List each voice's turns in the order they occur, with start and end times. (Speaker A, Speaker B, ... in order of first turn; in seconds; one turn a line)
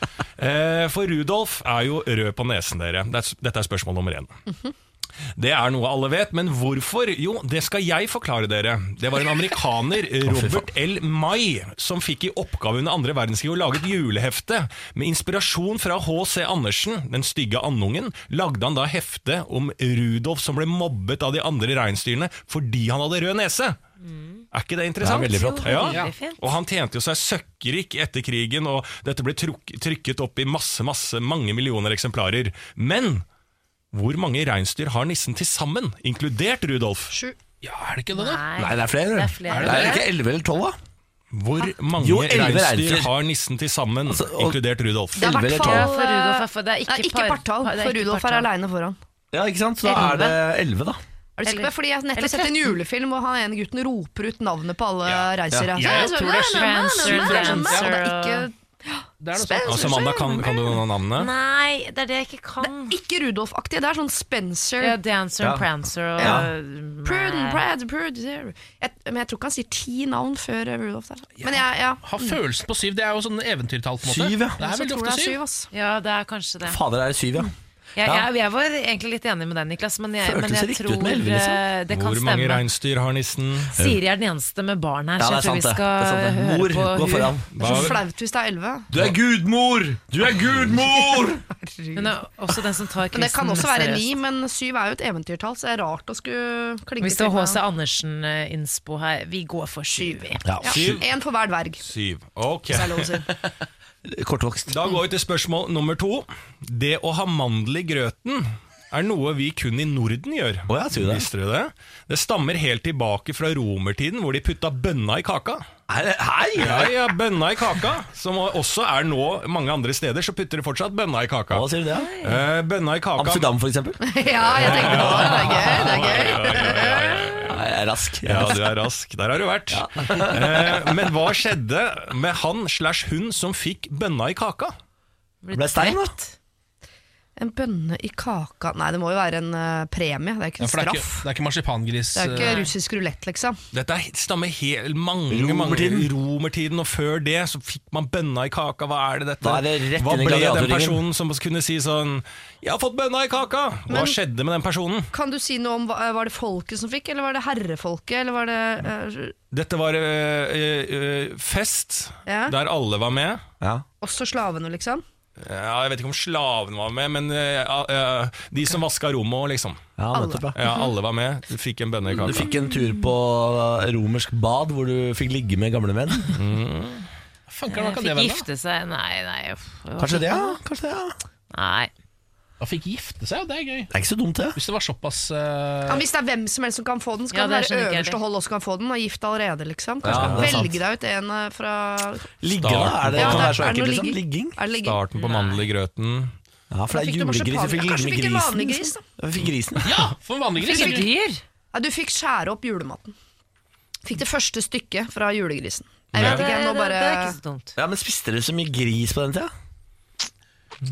Speaker A: 0.4-4.3
Speaker A: 5.4-23.8
Speaker B: 10.2-10.7
Speaker C: 24.0-24.4
Speaker A: 24.5-33.2
Speaker B: 25.0-25.9
Speaker C: 25.2-26.4
Speaker D: 25.8-26.1
Speaker A: 33.9-37.1
Speaker E: 37.1-37.4
Speaker D: 37.6-38.4
Speaker C: 38.1-40.0
Speaker B: 38.6-40.8
Speaker D: 39.5-40.0
Speaker A: 41.3-45.4
Speaker B: 42.0-43.1
Speaker B: 44.1-44.6
Speaker B: 45.1-45.9
Speaker E: 45.1-49.0
Speaker C: 45.6-48.5
Speaker B: 49.3-51.0
Speaker C: 49.8-50.4
Speaker E: 51.4-60.8
Speaker C: 51.4-52.8
Speaker D: 55.0-58.0
Speaker C: 55.9-58.5
Speaker D: 59.2-60.2
Speaker A: 59.6-61.3
Speaker C: 61.1-63.0
Speaker E: 62.6-65.0
Speaker C: 64.8-67.6
Speaker B: 65.4-65.6
Speaker B: 66.2-66.5
Speaker E: 66.2-66.5
Speaker E: 67.0-72.4
Speaker D: 71.4-75.4
Speaker B: 74.0-74.6
Speaker E: 74.6-75.7
Speaker C: 75.7-76.8
Speaker B: 76.6-78.3
Speaker C: 78.0-82.7
Speaker B: 80.2-81.6
Speaker A: 81.9-83.7
Speaker C: 83.8-87.9
Speaker B: 85.2-87.5
Speaker A: 87.5-88.0
Speaker E: 87.6-88.9
Speaker B: 88.9-91.4
Speaker E: 91.0-92.1
Speaker C: 91.9-94.2
Speaker E: 93.1-97.6
Speaker C: 97.0-100.4
Speaker E: 99.9-101.8
Speaker B: 100.4-101.0
Speaker A: 100.7-101.0
Speaker A: 101.8-103.2
Speaker E: 102.7-103.3
Speaker B: 104.0-104.8
Speaker A: 104.7-115.6
Speaker B: 110.7-111.3
Speaker B: 115.9-116.9
Speaker A: 116.6-121.7
Speaker B: 121.5-122.1
Speaker C: 122.0-122.4
Speaker A: 122.2-123.5
Speaker B: 123.2-124.0
Speaker E: 124.0-127.2
Speaker A: 124.5-127.6
Speaker B: 124.6-125.5
Speaker B: 127.4-128.7
Speaker A: 128.2-134.7
Speaker B: 129.7-130.9
Speaker C: 135.4-136.3
Speaker B: 135.5-136.2
Speaker E: 137.4-141.2
Speaker D: 140.6-142.6
Speaker E: 142.1-143.6
Speaker C: 142.3-142.7
Speaker A: 143.7-155.1
Speaker B: 145.3-146.1
Speaker B: 149.4-151.0
Speaker E: 153.9-154.2
Speaker E: 155.1-159.3
Speaker A: 159.5-163.4
Speaker E: 162.2-162.5
Speaker E: 164.0-165.0
Speaker A: 165.4-169.8
Speaker B: 170.0-170.6
Speaker E: 170.1-170.8
Speaker A: 170.5-172.5
Speaker B: 172.2-176.3
Speaker A: 176.3-177.1
Speaker D: 177.5-178.5
Speaker C: 177.7-180.6
Speaker B: 180.0-181.2
Speaker C: 181.5-181.9
Speaker D: 182.6-183.9
Speaker B: 183.9-184.6
Speaker D: 184.5-186.1
Speaker E: 185.9-192.3
Speaker C: 187.3-188.2
Speaker B: 190.0-190.8
Speaker D: 190.1-190.5
Speaker B: 192.4-194.6
Speaker A: 192.6-193.6
Speaker E: 193.1-195.0
Speaker A: 194.8-196.3
Speaker C: 195.1-195.7
Speaker B: 196.7-199.9
Speaker E: 196.9-199.0
Speaker D: 199.8-201.1
Speaker C: 200.6-201.4
Speaker E: 200.7-201.0
Speaker E: 201.7-203.1
Speaker E: 204.0-207.4
Speaker A: 206.1-206.5
Speaker C: 206.2-207.7
Speaker B: 207.8-209.5